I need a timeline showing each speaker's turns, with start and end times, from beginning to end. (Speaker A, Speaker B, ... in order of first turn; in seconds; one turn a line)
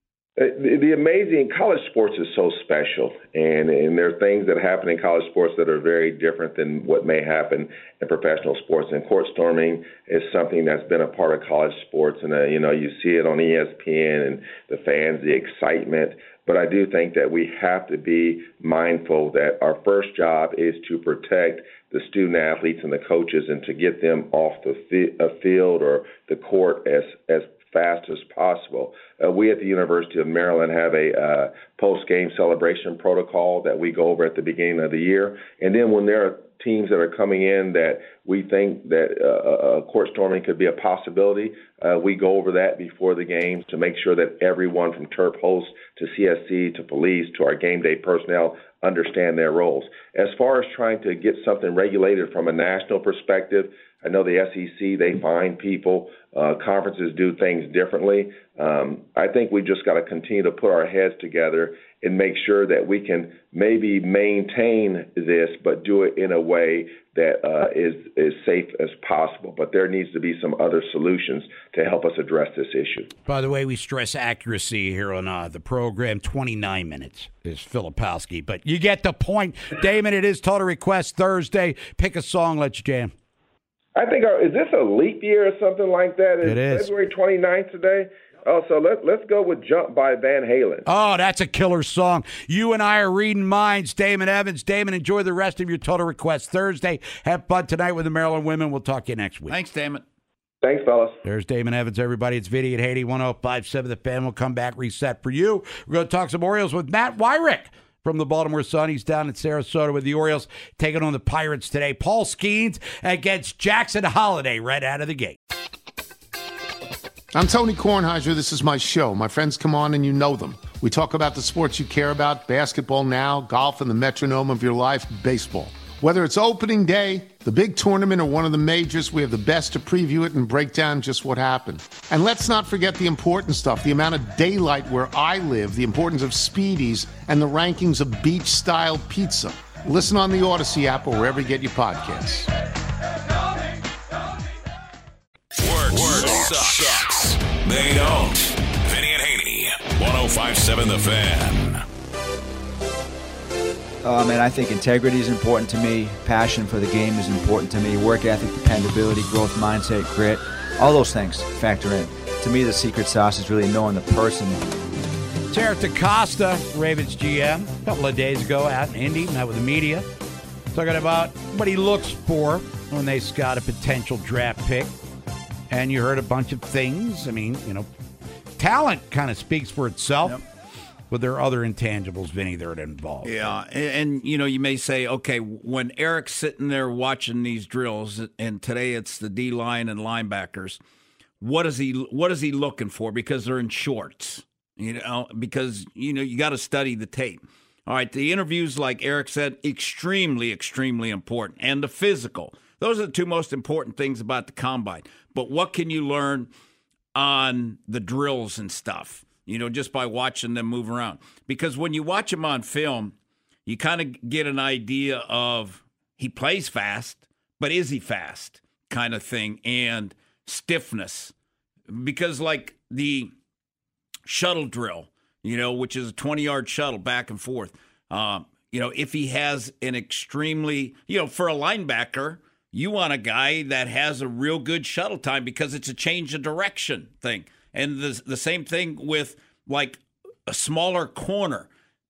Speaker A: 0.4-73.1
Speaker B: 73.3-83.1
Speaker A: 84.0-90.9
Speaker B: 86.4-86.9
Speaker B: 90.8-99.5
Speaker C: 99.5-100.0
Speaker A: 100.6-101.2
Speaker B: 101.2-115.4
Speaker D: 117.3-142.5
Speaker E: 145.6-151.8
Speaker F: 154.0-164.6
Speaker B: 165.5-170.1
Speaker B: 170.7-174.9
Speaker B: 175.7-177.9
Speaker B: 178.6-180.4
Speaker B: 181.1-183.5
Speaker C: 183.2-190.8
Speaker C: 191.4-206.5
Speaker C: 207.1-213.1
Speaker C: 213.7-221.3
Speaker C: 221.9-223.3
Speaker C: 224.3-241.7